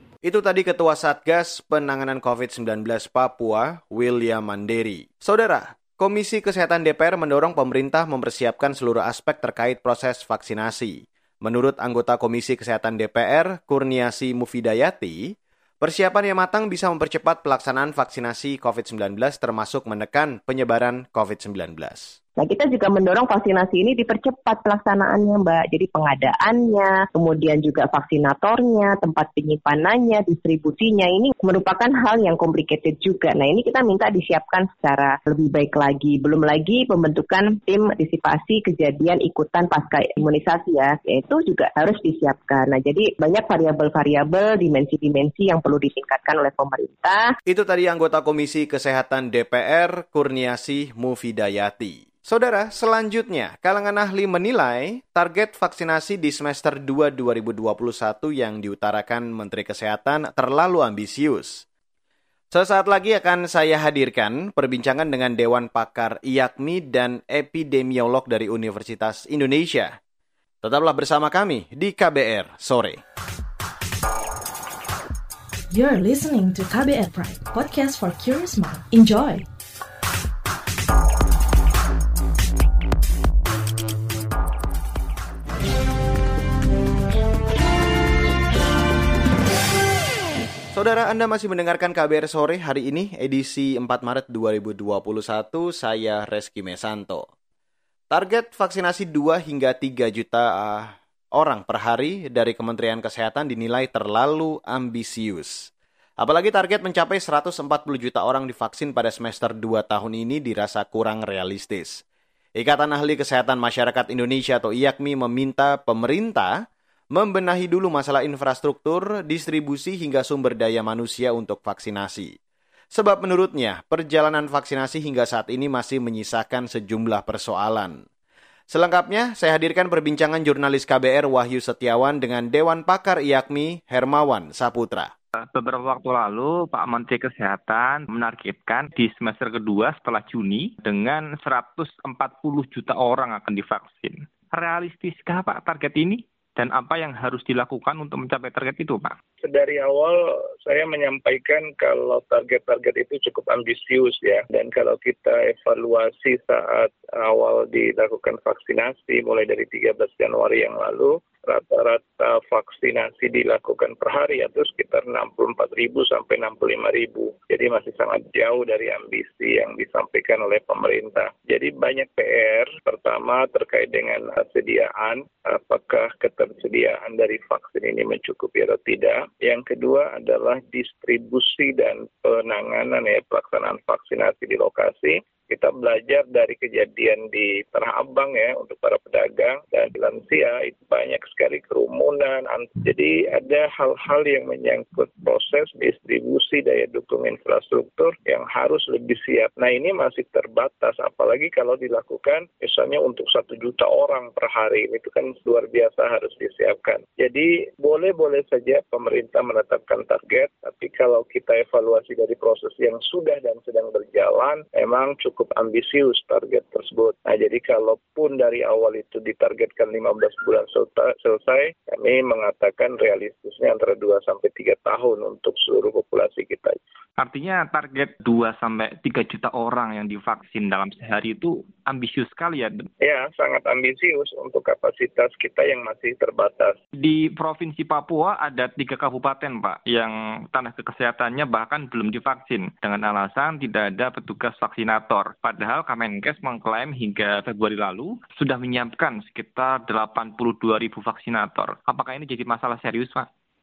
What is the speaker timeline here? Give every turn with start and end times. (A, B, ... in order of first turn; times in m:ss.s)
0:00.2-0:22.2 A
0:22.4-0:47.3 B
0:47.5-1:01.6 A
1:02.5-1:10.0 A
1:10.6-1:13.0 A
1:15.7-1:19.5 C
1:30.7-1:37.3 A
1:38.1-1:45.7 A
1:46.2-1:52.0 A
1:52.6-1:56.6 A
1:57.1-2:02.4 A
2:02.9-2:08.0 A
2:08.7-2:15.1 A
2:15.4-2:29.2 D
2:29.4-3:46.8 E
3:47.2-3:52.9 D
3:53.0-3:56.8 E
3:57.0-4:13.3 D